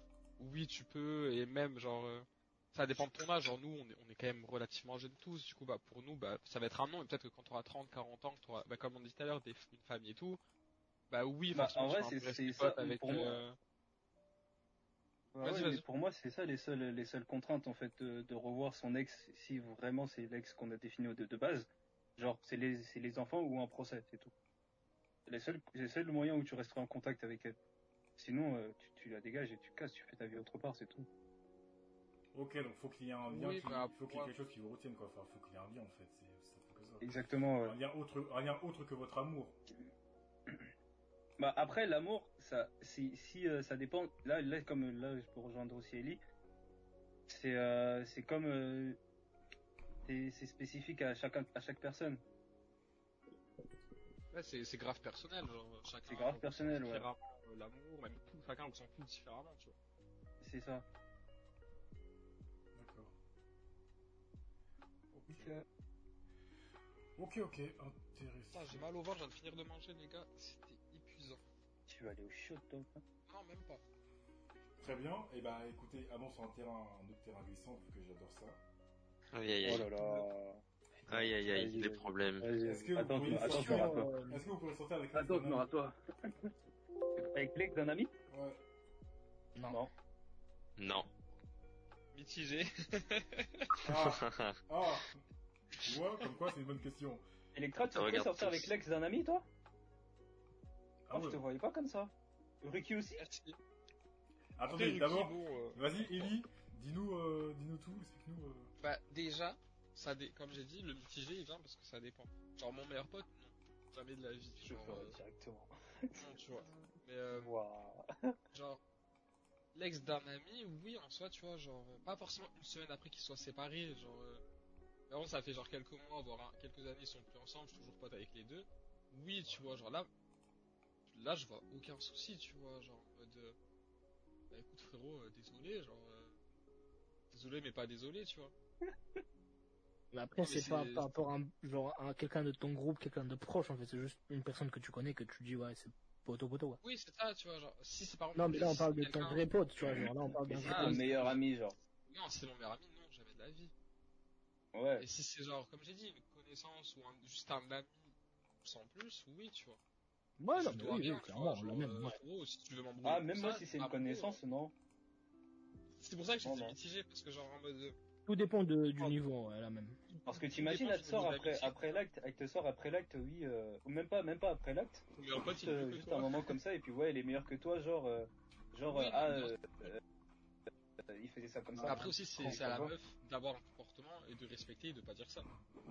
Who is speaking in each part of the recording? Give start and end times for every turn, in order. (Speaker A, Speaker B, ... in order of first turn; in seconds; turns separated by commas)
Speaker A: 0.4-10.4, Speaker A: 11.1-13.6, Speaker B: 11.5-13.4, Speaker B: 15.4-24.3, Speaker A: 15.4-15.8, Speaker B: 25.3-27.6, Speaker B: 28.2-31.1, Speaker C: 32.3-39.6, Speaker A: 33.3-34.3, Speaker B: 37.0-37.8, Speaker B: 41.4-46.2, Speaker B: 47.3-49.0, Speaker B: 50.0-52.2, Speaker A: 54.3-59.7, Speaker B: 56.0-57.1, Speaker B: 60.4-60.8, Speaker C: 62.7-63.1, Speaker C: 65.1-65.5, Speaker B: 65.3-65.6, Speaker C: 67.2-68.9, Speaker A: 68.5-71.4, Speaker B: 71.9-73.0, Speaker A: 73.3-73.8, Speaker C: 74.8-78.6, Speaker D: 79.3-79.9, Speaker B: 79.6-84.1, Speaker A: 80.0-80.2, Speaker D: 81.1-82.5, Speaker C: 82.6-85.7, Speaker E: 83.2-84.4, Speaker B: 85.1-86.5, Speaker B: 87.3-88.1, Speaker C: 88.3-88.6, Speaker E: 89.5-89.8, Speaker D: 90.8-91.1, Speaker A: 92.1-93.9, Speaker C: 93.8-95.2, Speaker D: 93.9-94.6, Speaker C: 95.8-97.2, Speaker B: 97.5-99.4, Speaker D: 97.9-98.7, Speaker C: 101.1-101.4, Speaker B: 101.1-103.2, Speaker A: 103.2-103.6, Speaker C: 104.6-108.7, Speaker A: 104.7-106.3, Speaker A: 108.8-115.2, Speaker B: 114.6-116.3, Speaker A: 116.2-117.5, Speaker B: 117.3-118.4, Speaker A: 118.5-118.8, Speaker A: 119.7-124.4, Speaker A: 125.1-130.1, Speaker A: 131.1-133.6, Speaker A: 134.5-136.4, Speaker A: 137.3-138.5, Speaker E: 140.1-146.8, Speaker A: 140.4-141.2, Speaker A: 146.8-149.4, Speaker E: 148.3-151.4, Speaker B: 149.9-151.8, Speaker A: 150.5-151.4, Speaker A: 152.1-153.7, Speaker B: 154.7-155.1, Speaker A: 155.0-159.8, Speaker E: 160.4-162.2, Speaker A: 160.5-164.4, Speaker B: 163.0-164.7, Speaker A: 166.0-167.9, Speaker B: 166.4-166.8, Speaker E: 168.2-170.0, Speaker A: 170.1-172.0, Speaker B: 170.2-180.0, Speaker A: 175.1-176.4, Speaker A: 178.8-179.9, Speaker B: 181.1-182.9, Speaker A: 181.8-185.5, Speaker E: 181.8-182.6